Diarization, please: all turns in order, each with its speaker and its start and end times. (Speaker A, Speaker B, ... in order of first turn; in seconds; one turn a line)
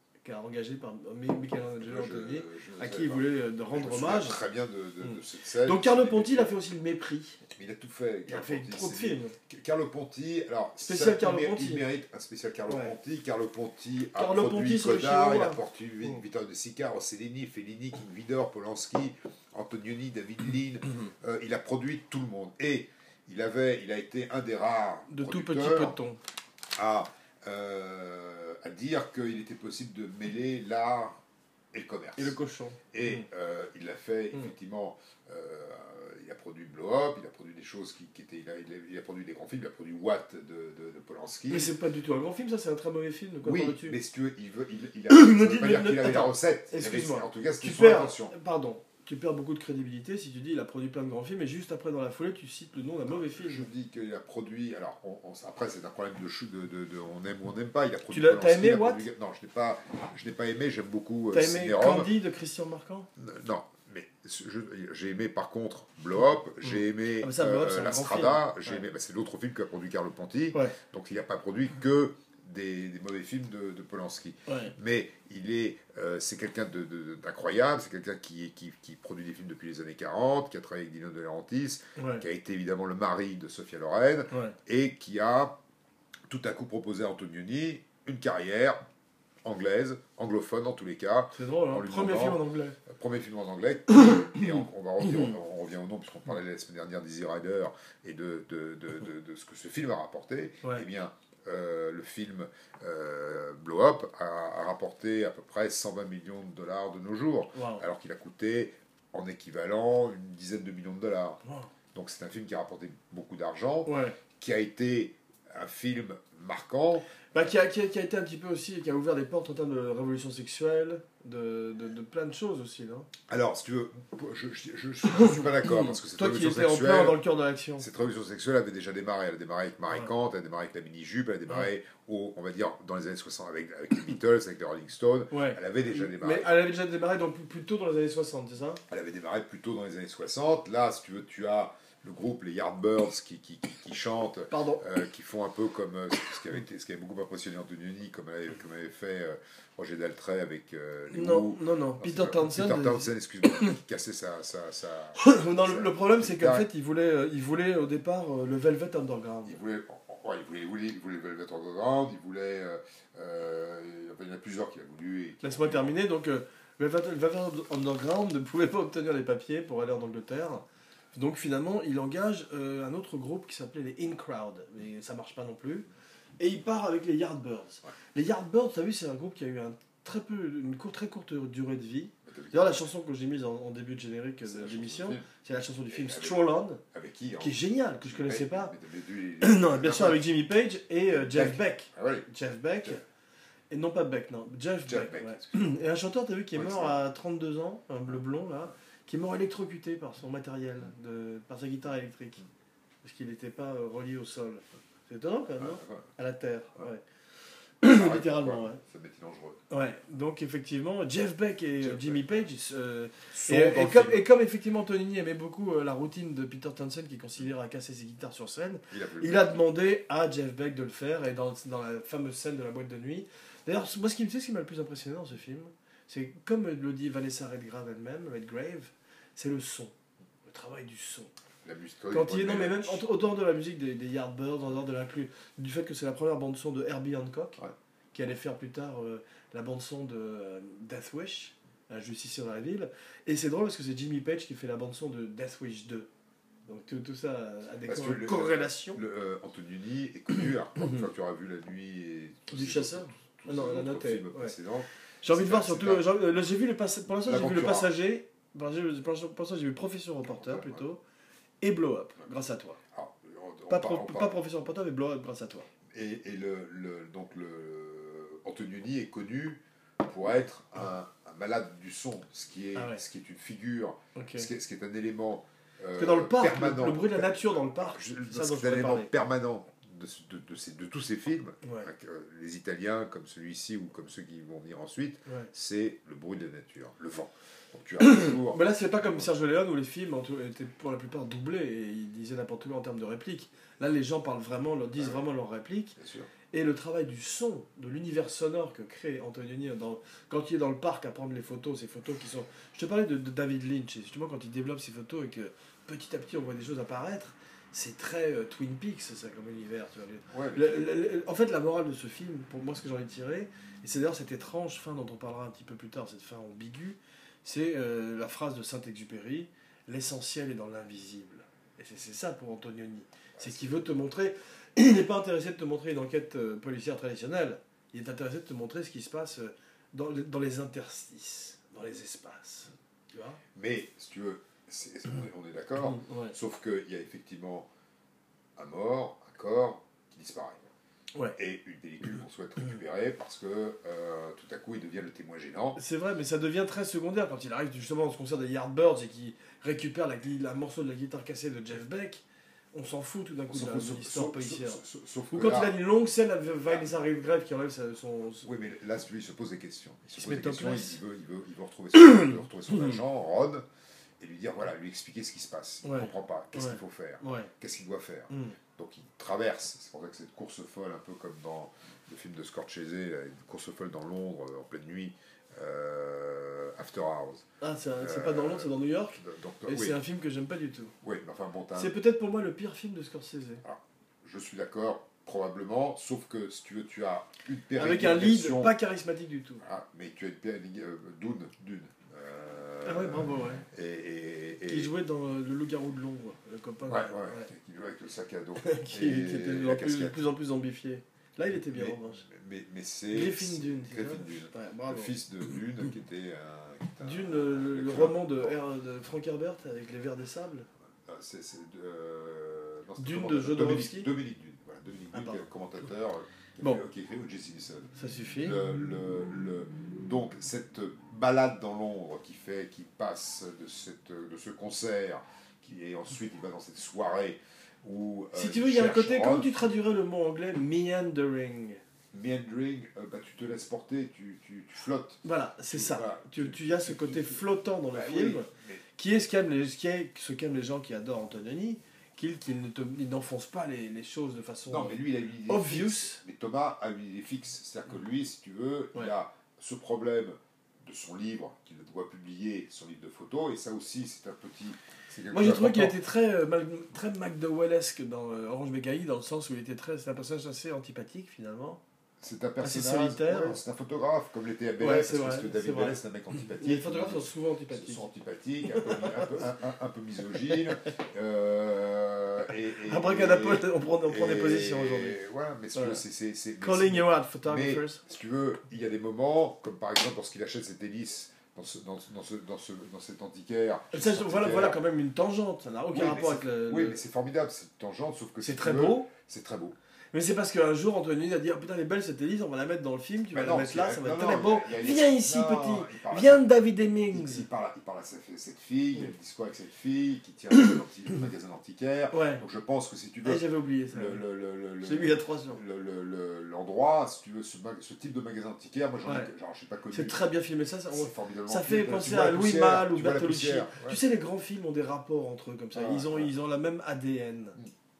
Speaker A: 0.2-4.4
Speaker B: 1.8-6.5
Speaker A: 5.0-7.4
Speaker B: 7.5-26.0
Speaker A: 8.3-9.3
Speaker A: 10.8-11.8
Speaker A: 12.7-12.9
Speaker A: 14.2-16.2
Speaker A: 25.1-26.2
Speaker B: 26.8-31.2
Speaker B: 31.7-32.4
Speaker A: 32.2-33.2
Speaker B: 32.9-41.7
Speaker A: 41.5-44.0
Speaker B: 43.4-48.4
Speaker A: 45.1-53.7
Speaker B: 53.1-62.1
Speaker A: 58.1-59.0
Speaker A: 61.3-63.1
Speaker B: 63.2-85.6
Speaker A: 66.6-68.8
Speaker A: 74.5-74.7
Speaker A: 82.0-82.2
Speaker A: 84.3-84.6
Speaker B: 86.3-88.8
Speaker B: 89.4-111.4
Speaker A: 91.3-92.8
Speaker A: 94.0-94.5
Speaker A: 107.5-107.8
Speaker B: 111.9-117.1
Speaker A: 113.8-114.2
Speaker A: 117.3-123.1
Speaker B: 123.3-127.2
Speaker A: 125.1-127.9
Speaker B: 127.8-136.5
Speaker A: 135.3-138.8
Speaker B: 138.9-156.7
Speaker A: 144.5-144.8
Speaker A: 151.1-153.1
Speaker A: 155.2-159.6
Speaker B: 159.4-166.0
Speaker A: 165.4-175.9
Speaker A: 176.4-186.8
Speaker B: 182.3-182.8
Speaker B: 184.4-185.3
Speaker B: 185.9-190.3
Speaker A: 187.4-188.7
Speaker A: 189.4-193.0
Speaker B: 191.1-192.3
Speaker A: 193.7-202.4
Speaker B: 194.9-195.8
Speaker B: 196.5-197.0
Speaker A: 203.0-207.0
Speaker B: 205.6-206.1
Speaker A: 207.8-208.8
Speaker B: 207.8-209.6
Speaker A: 209.7-229.9
Speaker B: 211.8-212.2
Speaker B: 213.3-214.2
Speaker B: 218.9-219.6
Speaker A: 230.5-231.3
Speaker B: 231.6-233.1
Speaker A: 232.1-237.6
Speaker A: 238.1-246.1
Speaker A: 246.7-249.0
Speaker B: 247.9-256.1
Speaker A: 252.5-254.6
Speaker A: 255.2-261.0
Speaker B: 257.2-257.9
Speaker B: 260.4-260.8
Speaker A: 261.6-262.8
Speaker B: 262.9-264.4
Speaker A: 263.7-265.7
Speaker B: 265.9-289.3
Speaker A: 272.8-273.0
Speaker A: 274.1-274.5
Speaker A: 276.0-279.1
Speaker A: 281.6-281.9
Speaker A: 288.0-296.0
Speaker B: 295.0-295.2
Speaker B: 296.0-296.3
Speaker A: 296.5-333.4
Speaker B: 310.3-310.9
Speaker B: 323.4-323.9
Speaker B: 333.6-337.7
Speaker A: 335.8-336.4
Speaker B: 338.6-340.6
Speaker B: 341.4-345.8
Speaker A: 345.8-358.5
Speaker B: 353.5-355.8
Speaker B: 356.7-357.0
Speaker B: 358.4-363.6
Speaker A: 360.2-361.0
Speaker A: 361.9-363.0
Speaker B: 364.2-377.5
Speaker A: 365.8-367.5
Speaker A: 368.3-368.6
Speaker A: 377.6-380.9
Speaker B: 378.0-380.0
Speaker B: 381.0-382.0
Speaker A: 381.7-383.6
Speaker B: 383.6-388.8
Speaker A: 387.8-389.6
Speaker B: 389.6-394.9
Speaker A: 392.8-393.6
Speaker A: 394.7-397.5
Speaker B: 396.9-400.3
Speaker A: 398.6-402.3
Speaker B: 401.7-408.5
Speaker A: 403.1-405.1
Speaker A: 407.0-410.7
Speaker B: 411.1-429.5
Speaker A: 413.0-414.1
Speaker A: 415.1-415.4
Speaker A: 418.0-418.6
Speaker A: 428.3-431.8
Speaker B: 432.1-438.8
Speaker A: 435.2-446.2
Speaker B: 444.7-456.0
Speaker A: 455.3-461.8
Speaker B: 462.2-484.8
Speaker A: 462.6-463.6
Speaker A: 464.8-466.0
Speaker A: 466.5-468.1
Speaker A: 468.8-469.2
Speaker A: 472.9-475.2
Speaker A: 475.7-476.0
Speaker A: 476.6-478.0
Speaker A: 483.9-487.0
Speaker B: 485.9-489.8
Speaker A: 488.4-489.1
Speaker A: 490.1-497.5
Speaker B: 493.3-496.5
Speaker B: 497.1-510.2
Speaker A: 502.1-502.4
Speaker A: 503.2-504.2
Speaker A: 504.8-505.6
Speaker A: 509.1-509.3
Speaker A: 509.9-517.6
Speaker B: 510.9-514.0
Speaker B: 515.7-516.3